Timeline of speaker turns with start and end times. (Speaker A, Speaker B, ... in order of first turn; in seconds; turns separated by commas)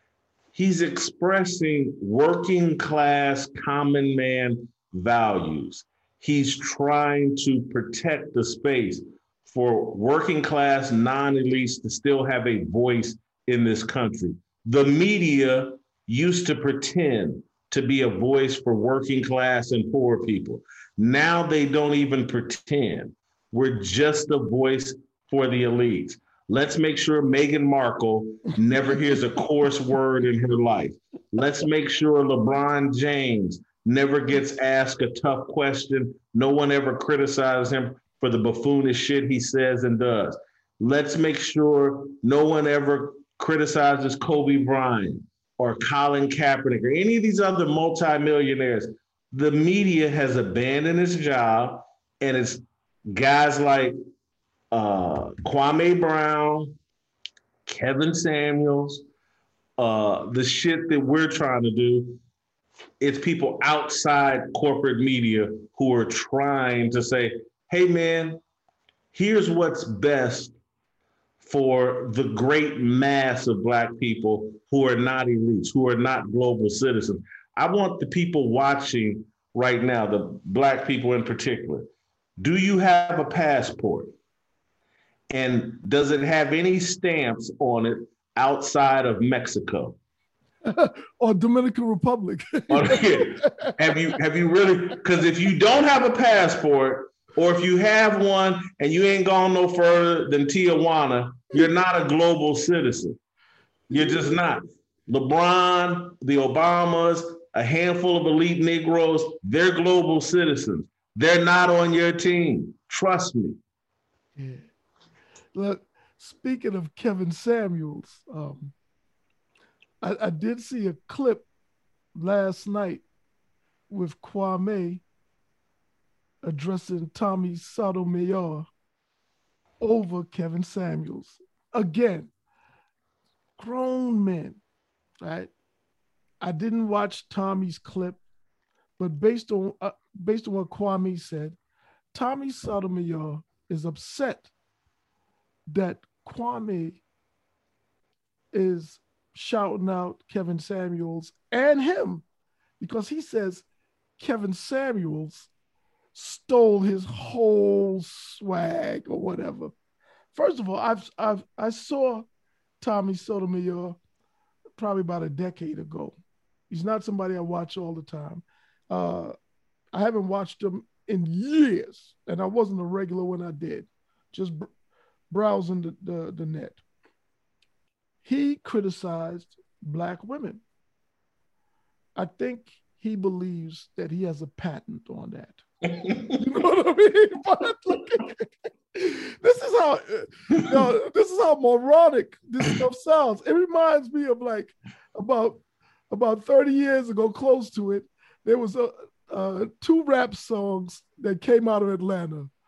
Speaker A: 0.5-54.0, Speaker A: 54.7-56.8, Speaker A: 57.7-59.0, Speaker A: 59.8-62.2, Speaker A: 63.0-68.4, Speaker A: 69.1-70.5, Speaker A: 71.4-84.1, Speaker A: 85.3-90.0, Speaker B: 90.7-93.8, Speaker A: 92.7-103.2, Speaker B: 103.9-104.4, Speaker A: 103.9-113.6, Speaker B: 114.4-114.6, Speaker B: 115.5-118.7, Speaker B: 120.0-121.5, Speaker B: 122.1-123.0, Speaker B: 123.9-125.0, Speaker B: 126.4-128.7, Speaker B: 129.8-132.3, Speaker B: 133.6-134.6, Speaker B: 135.2-135.5, Speaker B: 136.4-138.2, Speaker B: 139.0-141.6, Speaker B: 142.1-144.5, Speaker B: 145.7-147.0, Speaker B: 148.5-152.2, Speaker B: 152.8-153.6, Speaker B: 154.2-155.5, Speaker B: 156.1-159.7, Speaker B: 160.3-162.3, Speaker B: 162.8-164.0, Speaker B: 164.8-166.2, Speaker B: 166.7-169.3, Speaker B: 169.9-174.7, Speaker B: 175.3-176.8, Speaker B: 178.2-180.6, Speaker B: 182.2-185.6, Speaker A: 185.8-186.4, Speaker B: 186.3-202.5